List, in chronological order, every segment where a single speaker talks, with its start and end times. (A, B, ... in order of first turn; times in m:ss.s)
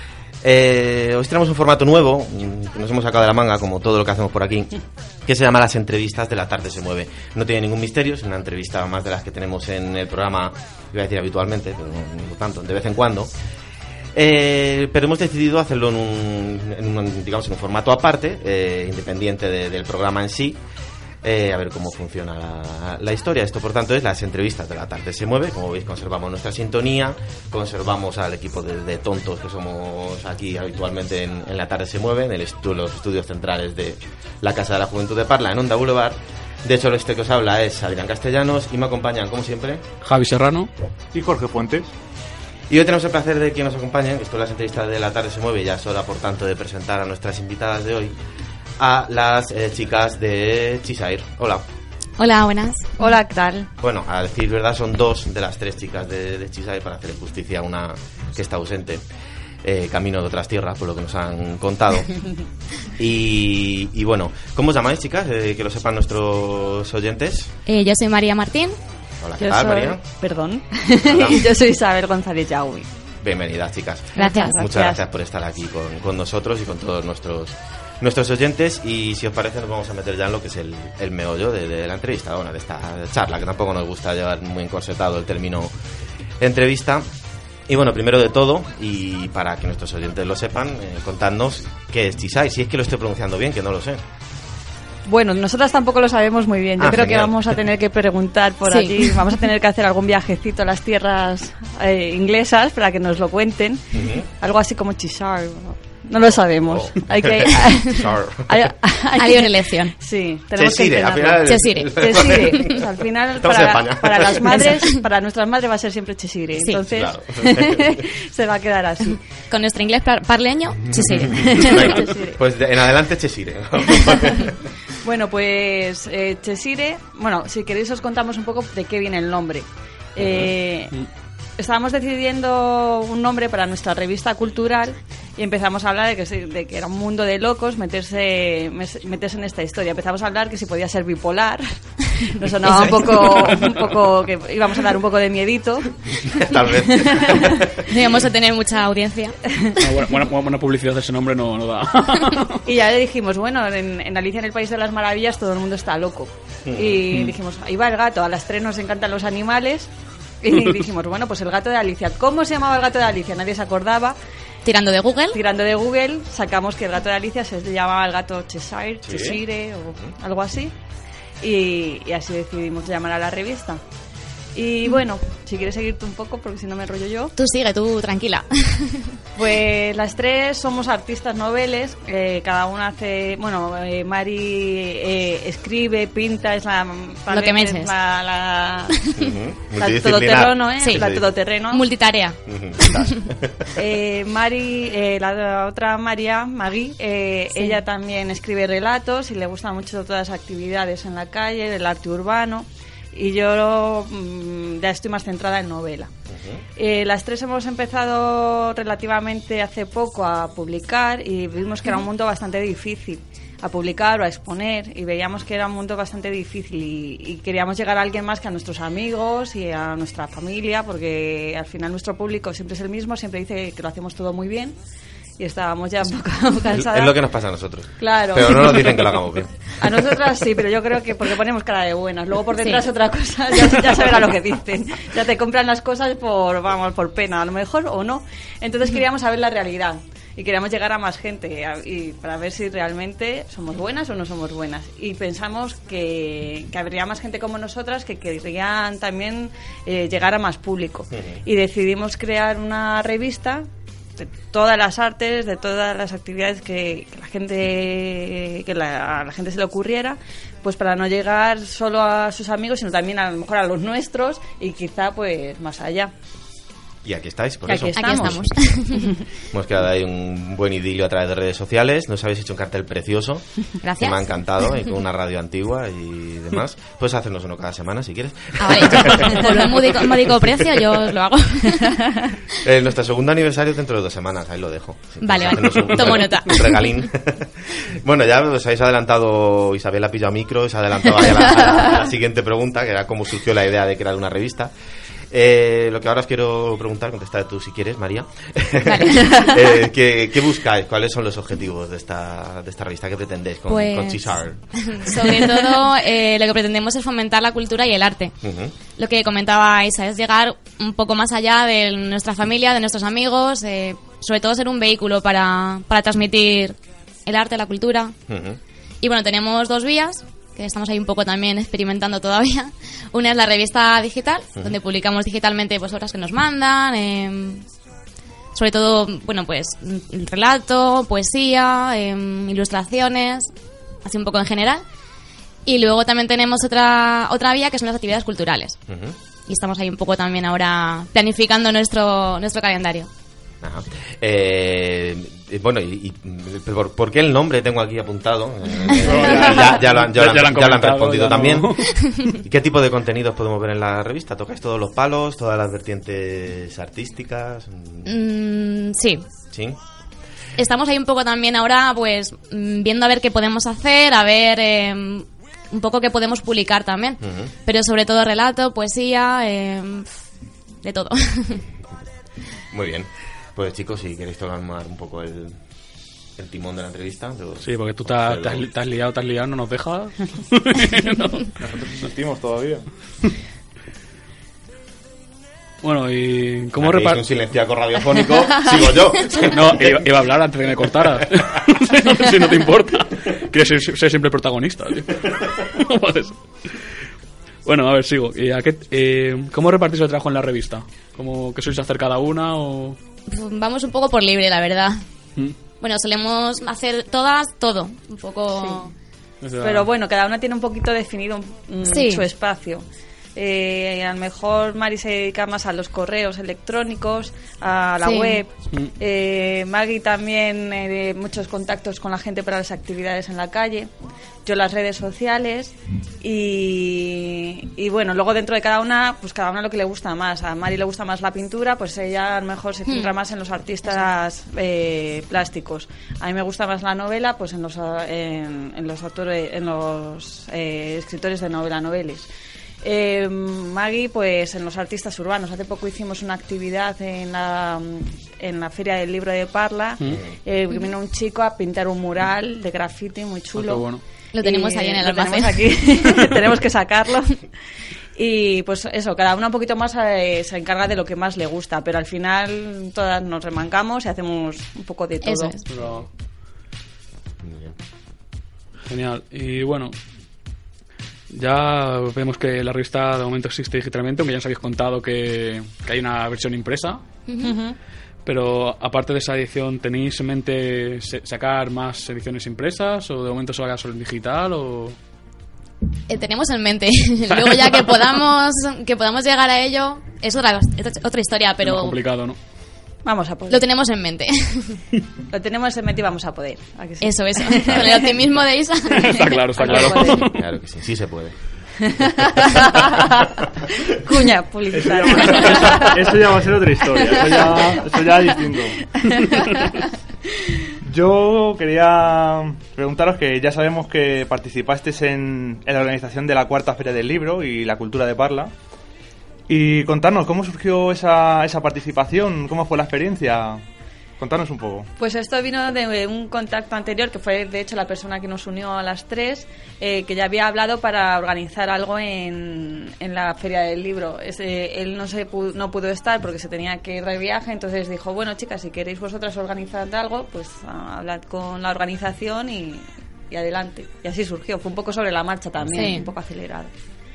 0:00.4-0:04.7 A
0:05.2-0:13.3 A
0:14.1-0:20.6 A
0:21.2-0:39.8 A
0:40.0-0:40.7 B
0:41.1-0:41.9 C
0:42.7-0:48.2 A
0:48.8-0:51.6 A
0:52.2-0:53.1 D
0:53.0-0:53.7 E
0:53.8-0:59.0 A
0:59.6-1:02.2 A
1:02.9-1:07.5 A
1:07.7-1:08.8 D
1:09.2-1:10.0 A
1:09.4-1:12.9 E
1:11.0-1:11.5 A
1:13.2-1:25.7 A
1:14.2-1:15.0 E
1:14.2-1:14.6 D
1:26.4-1:27.1 A
1:27.7-1:34.0 A
1:35.1-1:59.2 E
1:36.8-1:37.4 A
1:38.7-1:39.2 D
1:43.9-1:44.3 A
1:46.6-1:48.6 A
1:49.2-1:49.9 D
1:50.6-1:52.9 A
1:51.4-1:52.8 D
1:53.4-1:54.7 A
1:54.5-1:55.0 D
1:56.6-1:56.8 D
1:56.9-1:58.1 A
1:59.5-2:01.9 D
2:00.9-2:04.6 A
2:01.3-2:02.4 E
2:05.0-2:10.9 E
2:10.2-2:10.5 A
2:11.6-2:27.8 E
2:22.7-2:23.6 D
2:26.2-2:27.9 A
2:27.8-2:29.4 D
2:29.8-2:32.6 B
2:32.6-2:39.9 E
2:36.7-2:37.0 A
2:40.4-2:44.2 E
2:44.6-2:45.4 D
2:45.3-2:50.7 E
2:49.0-2:49.4 A
2:51.4-2:53.8 E
2:54.6-2:57.3 E
2:57.4-2:59.2 D
2:59.4-3:09.0 E
3:07.3-3:07.9 D
3:09.2-3:11.3 A
3:09.8-3:11.8 E
3:10.8-3:11.1 D
3:11.7-3:13.3 D
3:12.5-3:13.8 A
3:13.8-3:26.1 E
3:26.3-3:26.6 A
3:26.8-3:44.8 E
3:45.4-3:47.2 E
3:46.7-3:50.1 A
3:48.0-3:49.2 E
3:49.8-4:13.6 E
3:52.6-3:52.8 D
4:11.1-4:11.4 A
4:14.2-4:26.1 E
4:27.0-4:28.8 A
4:27.6-4:29.2 E
4:27.8-4:29.1 D
4:29.4-4:33.5 A
4:33.8-4:34.8 D
4:34.0-4:40.3 A
4:38.6-4:42.0 D
4:42.6-4:54.7 A
4:45.2-4:47.1 D
4:55.3-5:05.4 A
4:58.8-4:59.5 D
5:03.7-5:08.3 D
5:08.4-5:08.7 A
5:08.9-5:16.7 D
5:17.2-5:18.1 D
5:18.3-5:18.6 A
5:19.0-5:27.6 D
5:28.5-5:33.5 D
5:34.0-5:34.8 D
5:35.6-5:38.8 D
5:38.9-5:39.2 A
5:39.5-5:43.1 D
5:43.6-5:51.8 A
5:48.9-5:52.0 B
5:52.3-5:58.1 A
5:58.0-5:59.2 D
5:59.5-5:59.8 A
6:00.6-6:10.1 D
6:07.2-6:07.5 A
6:10.8-6:11.6 D
6:12.7-6:15.6 A
6:16.4-6:18.7 A
6:17.6-6:21.5 B
6:21.6-6:22.9 C
6:25.8-6:27.2 B
6:26.8-6:30.2 A
6:29.5-6:36.7 B
6:31.0-6:31.2 A
6:37.6-6:43.0 B
6:43.3-6:45.0 D
6:45.8-6:48.9 D
6:48.5-6:48.9 E
6:49.4-6:49.9 B
6:49.6-6:52.8 E
6:51.8-6:52.2 D
6:53.4-7:03.9 E
6:58.0-6:58.4 D
7:04.4-7:22.3 E
7:12.9-7:13.1 D
7:22.8-7:33.9 E
7:33.5-7:34.0 B
7:34.3-7:36.2 D
7:34.4-7:37.5 E
7:38.1-7:45.6 E
7:45.2-7:45.7 D
7:45.6-7:46.0 B
7:45.8-7:46.0 A
7:47.4-7:47.7 A
7:48.8-7:49.9 B
7:51.3-7:57.0 B
7:57.3-7:57.6 D
7:57.4-7:57.8 E
7:58.2-8:05.0 B
8:06.1-8:12.0 D
8:07.3-8:07.8 B
8:11.6-8:12.4 B
8:13.0-8:13.6 E
8:13.5-8:14.8 D
8:15.3-8:18.1 E
8:17.0-8:19.3 D
8:18.9-8:20.4 B
8:19.2-8:20.3 E
8:20.2-8:21.4 A
8:21.8-8:26.1 E
8:24.7-8:28.8 C
8:27.0-8:27.8 E
8:29.0-8:29.9 E
8:30.8-8:38.5 C
8:39.5-8:43.6 C
8:44.2-8:44.9 C
8:45.0-9:06.7 E
9:05.7-9:06.1 D